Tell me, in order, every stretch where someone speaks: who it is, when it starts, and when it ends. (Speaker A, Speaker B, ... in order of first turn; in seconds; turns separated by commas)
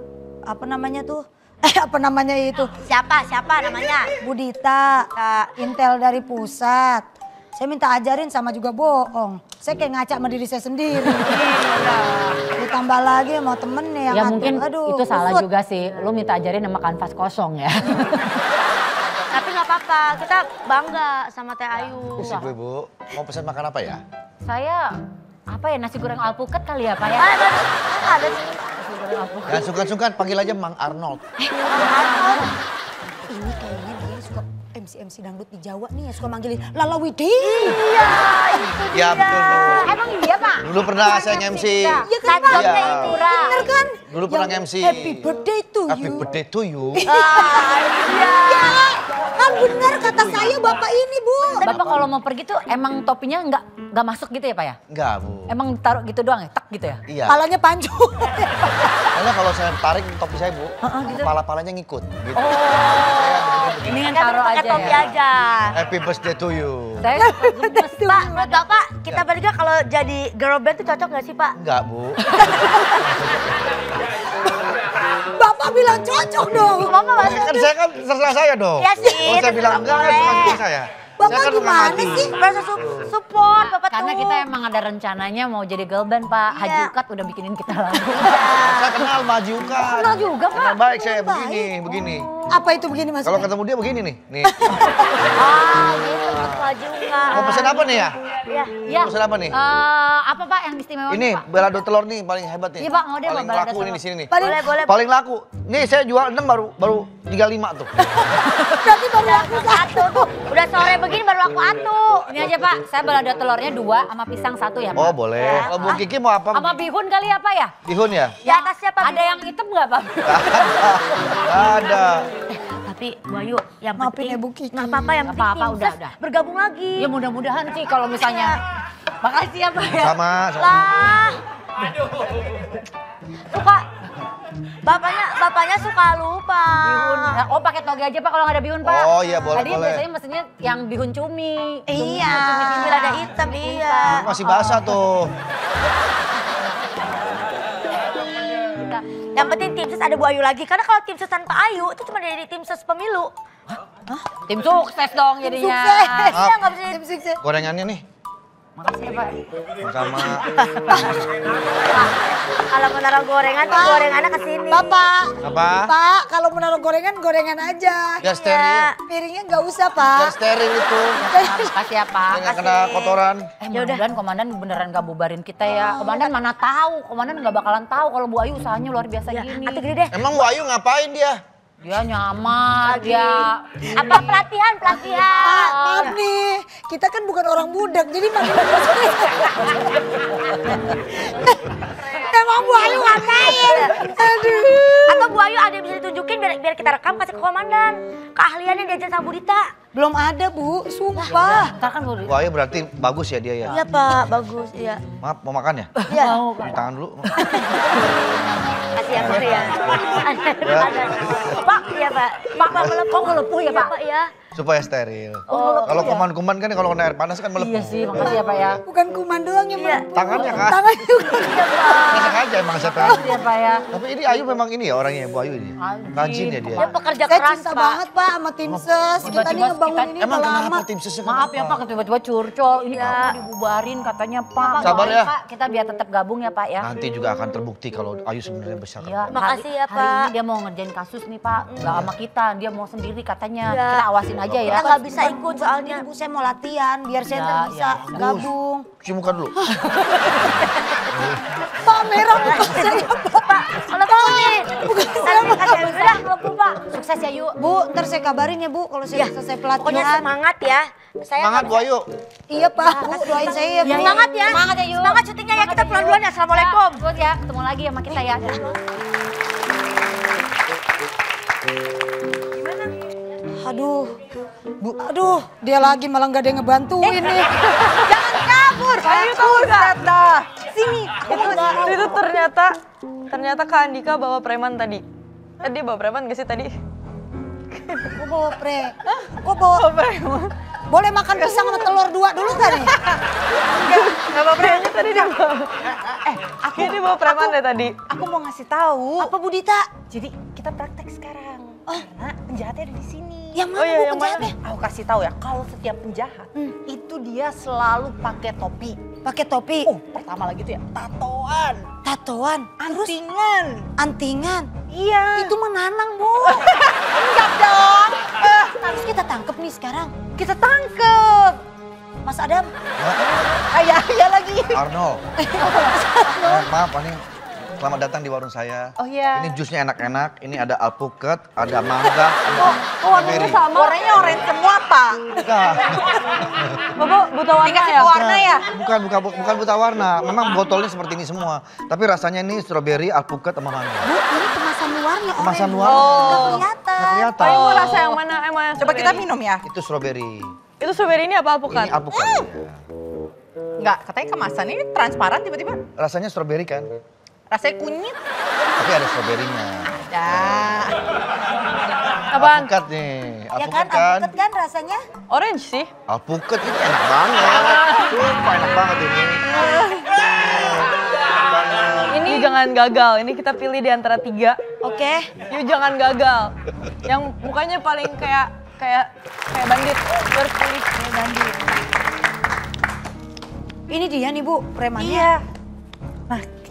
Speaker A: 0.5-2.7, Speaker B: 2.9-4.1, Speaker A: 4.2-11.6, Speaker B: 5.2-5.5, Speaker A: 12.6-15.4, Speaker C: 14.1-18.3, Speaker B: 19.3-22.3, Speaker C: 22.2-22.5, Speaker D: 22.2-24.0, Speaker C: 24.4-24.8, Speaker C: 25.5-27.3, Speaker B: 27.2-28.5, Speaker D: 27.9-28.2, Speaker C: 28.9-29.6, Speaker D: 29.5-31.2, Speaker A: 31.4-32.5, Speaker B: 31.7-32.3, Speaker A: 33.2-38.8, Speaker B: 37.4-39.8, Speaker D: 38.9-39.9, Speaker C: 39.7-43.5, Speaker D: 40.6-43.2, Speaker A: 41.0-46.3, Speaker B: 42.2-43.5, Speaker D: 44.1-45.4, Speaker D: 45.9-47.0, Speaker A: 47.0-51.7, Speaker B: 47.0-48.8, Speaker C: 51.6-54.8, Speaker D: 51.6-52.0, Speaker D: 54.9-55.5, Speaker C: 55.5-57.0, Speaker D: 57.1-57.4, Speaker A: 57.3-59.0, Speaker D: 59.1-64.2, Speaker C: 60.8-61.3, Speaker C: 62.4-63.2, Speaker B: 62.6-65.8, Speaker C: 63.8-65.0, Speaker D: 64.7-65.1, Speaker D: 65.7-67.1, Speaker C: 67.0-68.6, Speaker A: 67.2-68.6, Speaker B: 67.6-71.5, Speaker D: 71.5-72.4, Speaker A: 75.3-77.5, Speaker B: 76.7-77.7, Speaker D: 77.2-83.1, Speaker B: 78.8-80.6, Speaker A: 80.3-80.6, Speaker A: 81.2-82.4, Speaker B: 82.3-84.5, Speaker C: 83.6-88.4, Speaker B: 86.5-86.9, Speaker B: 88.2-89.0, Speaker D: 88.5-92.3, Speaker C: 89.8-90.5, Speaker A: 90.5-93.5, Speaker D: 93.2-94.6, Speaker A: 94.5-95.1, Speaker B: 95.4-98.7, Speaker C: 95.4-96.0, Speaker D: 97.3-98.2, Speaker C: 98.8-101.5, Speaker D: 98.9-99.5, Speaker D: 101.1-107.9, Speaker C: 102.8-104.0, Speaker A: 104.3-104.7, Speaker B: 104.4-105.0, Speaker A: 108.8-110.3, Speaker B: 109.0-112.2, Speaker D: 110.8-111.0, Speaker C: 112.3-115.2, Speaker D: 115.0-116.8, Speaker B: 115.4-116.0, Speaker C: 116.5-117.7, Speaker D: 117.8-118.3, Speaker B: 118.4-119.4, Speaker C: 118.4-120.9, Speaker D: 120.2-122.3, Speaker B: 122.8-127.1, Speaker A: 123.9-125.1, Speaker C: 125.2-126.1, Speaker C: 127.0-128.6, Speaker C: 129.2-130.2, Speaker D: 129.9-130.9, Speaker B: 130.6-131.4, Speaker B: 133.5-133.8, Speaker B: 134.8-137.3, Speaker C: 136.8-145.0, Speaker D: 138.8-140.0, Speaker A: 141.9-143.3, Speaker B: 142.6-144.2, Speaker D: 144.1-145.3, Speaker B: 149.3-153.3, Speaker C: 154.4-156.3, Speaker A: 155.4-157.4, Speaker B: 156.1-157.0, Speaker D: 157.4-158.0, Speaker D: 159.8-160.5, Speaker A: 160.9-161.2, Speaker B: 161.9-164.8, Speaker A: 163.6-168.3, Speaker D: 165.4-165.9, Speaker D: 168.2-168.9, Speaker B: 168.4-168.9, Speaker A: 169.1-170.3, Speaker D: 170.1-171.2, Speaker C: 171.2-172.5, Speaker A: 171.2-171.7, Speaker D: 172.3-173.5, Speaker B: 172.4-173.2, Speaker C: 173.6-179.8, Speaker B: 173.7-174.0, Speaker B: 175.7-176.3, Speaker B: 179.3-180.4, Speaker D: 180.1-181.4, Speaker C: 181.8-186.1, Speaker B: 182.8-186.2, Speaker A: 185.4-195.3, Speaker B: 192.7-199.6, Speaker A: 199.9-201.7, Speaker C: 201.5-202.3, Speaker D: 202.2-203.8, Speaker B: 203.6-205.0, Speaker D: 205.2-206.0, Speaker C: 206.0-206.9, Speaker B: 206.1-206.4, Speaker D: 206.6-207.5, Speaker B: 208.9-214.3, Speaker D: 209.2-211.4, Speaker C: 212.5-213.9, Speaker D: 214.5-218.8, Speaker C: 215.5-216.3, Speaker B: 215.5-215.8, Speaker C: 217.6-218.8, Speaker A: 218.2-222.2, Speaker B: 219.7-220.0, Speaker D: 220.1-220.8, Speaker B: 221.4-222.4, Speaker D: 222.1-223.3, Speaker C: 222.8-223.8, Speaker A: 223.0-223.3, Speaker D: 223.9-226.9, Speaker C: 225.8-226.9, Speaker B: 226.8-228.0, Speaker A: 227.2-230.8, Speaker D: 228.7-229.5, Speaker C: 229.2-230.1, Speaker D: 230.2-231.8, Speaker C: 231.2-236.9, Speaker B: 232.9-233.4, Speaker A: 234.7-235.1, Speaker D: 234.8-235.3, Speaker D: 236.8-239.3, Speaker C: 239.0-244.9, Speaker B: 239.3-240.3, Speaker B: 241.7-242.0, Speaker D: 241.8-242.1, Speaker B: 243.7-246.1, Speaker A: 244.7-248.9, Speaker C: 247.3-248.3, Speaker D: 248.1-248.5, Speaker D: 249.0-249.5, Speaker A: 251.8-256.6, Speaker B: 252.2-256.2, Speaker C: 256.3-257.6, Speaker A: 257.6-260.3, Speaker B: 259.1-261.8, Speaker D: 261.4-262.1, Speaker A: 262.5-264.3, Speaker B: 262.8-267.0, Speaker C: 263.8-268.6, Speaker B: 268.1-268.5, Speaker A: 273.6-274.2, Speaker A: 274.8-277.5, Speaker E: 277.0-277.4, Speaker E: 278.0-281.9, Speaker F: 279.0-280.1, Speaker A: 281.1-282.1, Speaker F: 281.2-282.7, Speaker F: 283.3-285.0, Speaker F: 285.6-286.7, Speaker F: 287.7-288.1, Speaker A: 288.1-289.9, Speaker F: 289.8-290.5, Speaker A: 290.9-292.9, Speaker F: 293.8-295.9, Speaker E: 293.8-295.1, Speaker E: 296.2-297.5, Speaker F: 296.5-298.0, Speaker E: 298.1-299.3, Speaker A: 299.2-299.9, Speaker E: 300.1-303.6, Speaker A: 303.5-304.5, Speaker F: 303.7-304.5, Speaker E: 304.6-309.0, Speaker A: 309.2-309.9, Speaker E: 309.8-311.9, Speaker A: 312.0-313.1, Speaker E: 312.8-313.9, Speaker A: 314.0-314.7, Speaker E: 314.9-315.6, Speaker A: 315.3-320.1, Speaker E: 316.4-316.8, Speaker E: 317.4-317.8, Speaker E: 320.3-321.6, Speaker A: 322.2-322.7, Speaker D: 323.0-323.2, Speaker E: 323.7-324.7, Speaker D: 324.7-325.2, Speaker A: 325.6-326.7, Speaker D: 326.4-327.2, Speaker D: 327.8-333.7, Speaker E: 329.0-329.4, Speaker E: 333.0-335.4, Speaker D: 335.4-336.8, Speaker F: 337.0-338.1, Speaker E: 337.6-338.6, Speaker D: 338.1-344.1, Speaker A: 344.0-347.8, Speaker D: 345.4-348.1, Speaker F: 345.8-346.6, Speaker F: 347.4-349.3, Speaker E: 348.8-349.6, Speaker D: 349.6-350.5, Speaker F: 350.8-352.0, Speaker D: 351.7-352.8, Speaker E: 353.8-355.8, Speaker D: 356.0-356.9, Speaker E: 357.5-358.1, Speaker D: 358.8-360.0, Speaker E: 360.1-360.9, Speaker F: 362.3-362.7, Speaker D: 362.3-364.3, Speaker A: 363.5-365.0, Speaker F: 365.3-365.9, Speaker D: 366.1-369.4, Speaker F: 369.5-370.1, Speaker D: 370.3-372.4, Speaker F: 372.1-374.6, Speaker A: 374.8-375.3, Speaker F: 375.4-376.5, Speaker F: 377.0-381.0, Speaker A: 381.0-381.5, Speaker A: 383.9-385.3, Speaker E: 385.0-385.4